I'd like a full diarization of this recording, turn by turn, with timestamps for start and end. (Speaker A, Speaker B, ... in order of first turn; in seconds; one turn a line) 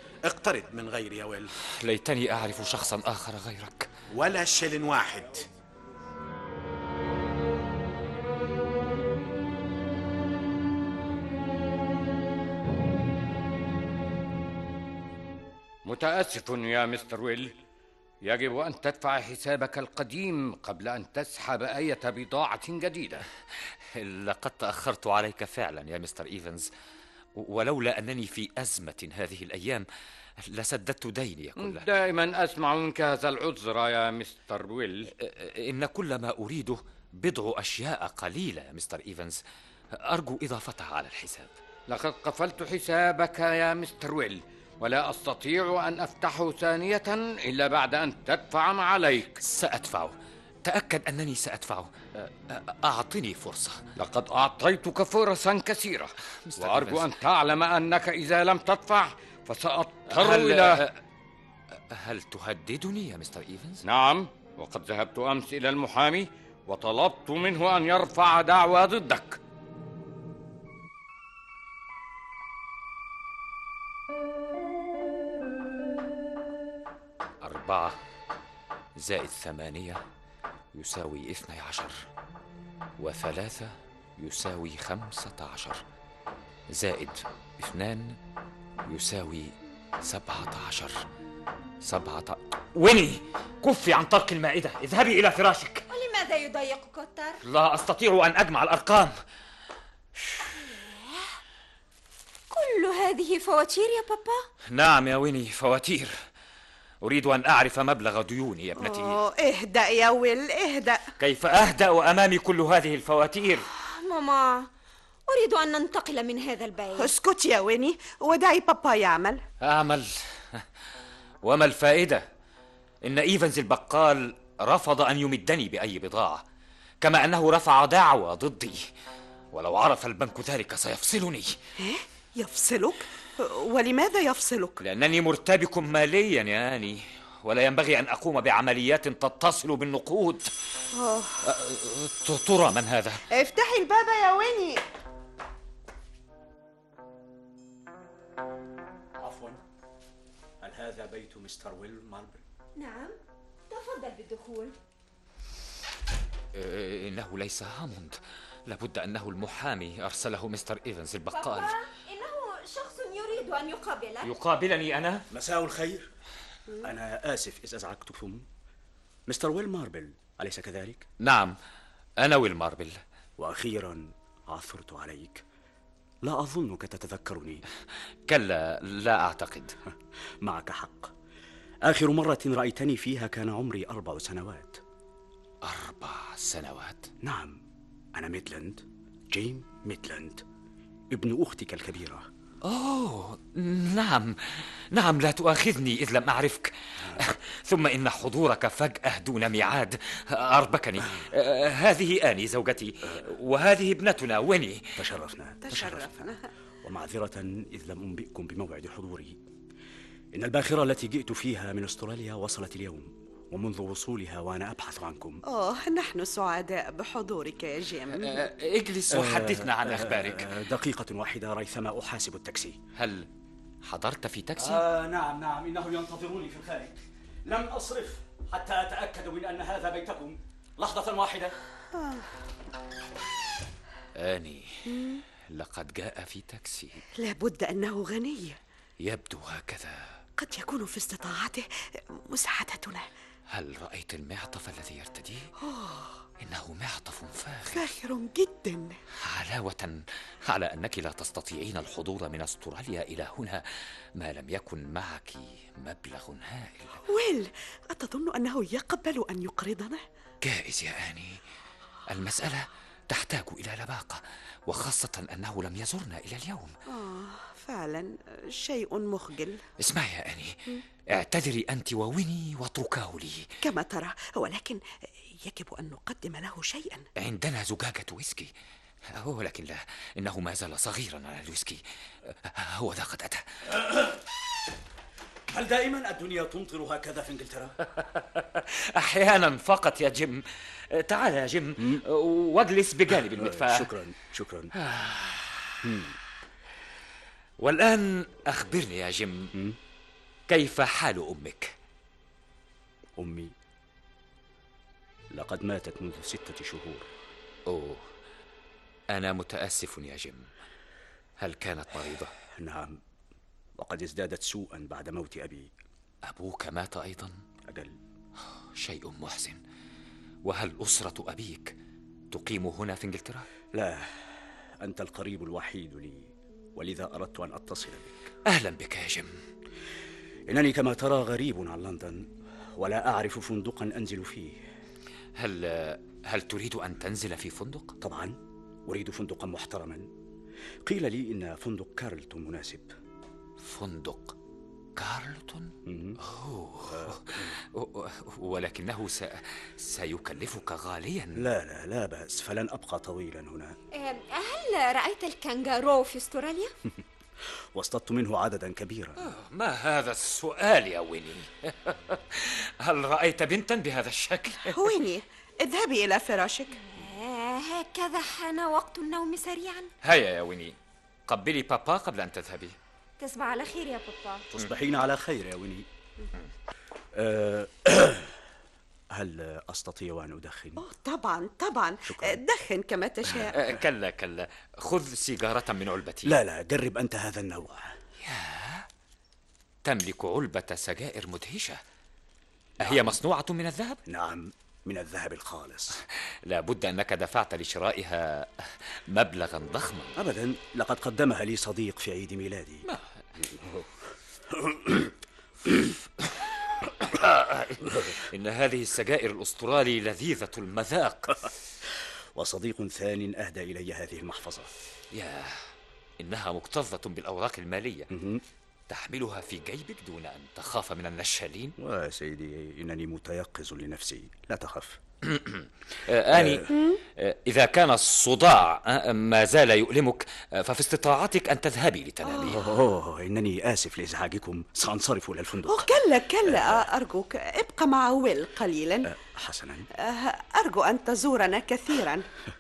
Speaker A: 0.3-1.4
Speaker B: 1.6-3.9
Speaker A: 4.2-5.4
Speaker C: 15.8-17.5
Speaker C: 18.2-23.2
Speaker B: 23.9-26.7
Speaker B: 27.4-29.9
Speaker B: 30.4-31.9
Speaker C: 31.6-35.1
Speaker B: 35.2-39.4
Speaker B: 40.0-41.5
Speaker C: 41.9-49.4
Speaker B: 49.4-53.9
Speaker C: 54.0-60.8
Speaker B: 56.5-57.1
Speaker B: 60.1-61.0
Speaker B: 61.9-63.8
Speaker C: 63.8-69.4
Speaker B: 77.4-78.0
Speaker B: 79.0-80.0
Speaker B: 80.7-82.0
Speaker B: 83.0-85.8
Speaker B: 86.7-88.2
Speaker B: 88.8-91.0
Speaker B: 91.8-95.8
Speaker D: 95.9-97.4
Speaker B: 97.4-99.1
Speaker D: 100.6-101.3
Speaker D: 102.5-104.4
Speaker B: 104.7-106.1
Speaker B: 107.0-109.2
Speaker E: 108.8-111.0
Speaker B: 111.2-113.6
Speaker D: 113.7-114.7
Speaker D: 115.3-117.1
Speaker E: 117.0-119.4
Speaker B: 119.6-120.6
Speaker B: 121.4-122.2
Speaker B: 123.0-126.4
Speaker B: 127.0-128.9
Speaker B: 129.5-131.5
Speaker E: 131.8-134.8
Speaker B: 134.8-140.5
Speaker E: 140.9-141.4
Speaker B: 141.4-143.2
Speaker E: 143.3-144.8
Speaker F: 149.2-149.6
Speaker F: 150.6-152.4
Speaker D: 152.8-153.2
Speaker D: 153.7-154.7
Speaker B: 156.5-161.7
Speaker D: 161.3-164.3
Speaker B: 164.2-165.2
Speaker F: 165.3-166.1
Speaker F: 166.8-168.4
Speaker F: 169.3-171.0
Speaker B: 171.2-171.6
Speaker B: 172.2-173.0
Speaker F: 173.4-175.4
Speaker F: 176.2-177.6
Speaker B: 178.3-179.8
Speaker F: 180.4-181.1
Speaker F: 181.8-184.8
Speaker B: 185.6-187.1
Speaker F: 187.2-187.6
Speaker F: 188.2-190.4
Speaker F: 191.1-192.2
Speaker B: 192.6-204.9
Speaker F: 205.0-206.3
Speaker E: 205.6-206.4
Speaker F: 206.8-209.4
Speaker F: 210.3-215.4
Speaker E: 215.5-218.4
Speaker B: 218.2-220.5
Speaker F: 219.1-222.8
Speaker B: 222.9-223.3
Speaker B: 223.8-224.8
Speaker F: 224.6-231.5
Speaker E: 231.9-232.3
Speaker B: 234.2-234.9
Speaker E: 234.9-235.2
Speaker B: 235.5-237.0
Speaker E: 237.2-238.6
Speaker B: 239.0-240.0
Speaker E: 240.4-243.1
Speaker B: 243.5-245.5
Speaker E: 245.6-246.2
Speaker B: 246.4-247.9
Speaker E: 247.7-249.0
Speaker B: 249.2-253.6
Speaker B: 254.2-257.0
Speaker E: 257.1-260.0
Speaker B: 260.4-261.4
Speaker B: 262.1-266.7
Speaker E: 266.9-269.6
Speaker B: 269.8-270.6
Speaker B: 271.1-273.5
Speaker E: 273.6-274.8
Speaker E: 275.4-277.1
Speaker B: 277.2-278.5
Speaker B: 279.1-283.4
Speaker F: 285.5-287.8
Speaker B: 288.0-293.9
Speaker F: 293.1-294.7
Speaker B: 294.8-295.8
Speaker F: 295.8-296.1
Speaker B: 297.6-299.5
Speaker B: 300.5-301.7
Speaker F: 303.2-303.5
Speaker F: 305.3-307.1
Speaker B: 307.7-308.0
Speaker B: 309.1-310.5
Speaker B: 311.4-312.3
Speaker F: 312.4-313.0
Speaker F: 313.8-315.7
Speaker B: 316.3-317.4
Speaker F: 317.7-318.0
Speaker B: 318.6-319.6
Speaker B: 320.4-321.7
Speaker B: 322.3-323.5
Speaker F: 323.7-328.3
Speaker B: 328.4-329.3
Speaker F: 330.5-334.6
Speaker B: 335.4-337.9
Speaker F: 338.0-340.1
Speaker F: 340.8-342.9
Speaker B: 343.6-344.4
Speaker B: 344.9-351.5
Speaker F: 345.8-346.2
Speaker F: 346.9-347.6
Speaker F: 351.4-353.7
Speaker D: 353.9-356.7
Speaker F: 357.7-359.3
Speaker B: 359.2-364.8
Speaker E: 364.7-366.8
Speaker D: 366.8-369.9
Speaker B: 370.0-370.8
Speaker B: 371.3-372.8
Speaker D: 373.2-374.5
Speaker F: 374.5-375.9
Speaker F: 377.1-378.4
Speaker F: 379.1-380.8
Speaker E: 380.8-383.6
Speaker F: 382.1-382.4
Speaker B: 383.5-386.3
Speaker F: 386.2-387.9
Speaker B: 388.2-388.9
Speaker B: 389.8-391.8
Speaker F: 392.8-393.1
Speaker B: 392.8-394.0
Speaker F: 394.1-396.0
Speaker B: 396.4-400.2
Speaker F: 400.1-405.1
Speaker F: 405.6-405.9
Speaker B: 407.0-411.5
Speaker F: 412.3-414.7
Speaker B: 415.1-415.6
Speaker B: 416.2-418.1
Speaker F: 418.1-418.4
Speaker B: 418.9-421.7
Speaker F: 421.8-425.0
Speaker B: 425.2-432.6
Speaker F: 426.3-426.8
Speaker E: 426.7-427.0
Speaker E: 432.2-432.6
Speaker F: 432.5-435.9
Speaker E: 435.7-439.1
Speaker F: 436.4-436.8
Speaker F: 439.0-439.9
Speaker E: 440.0-442.3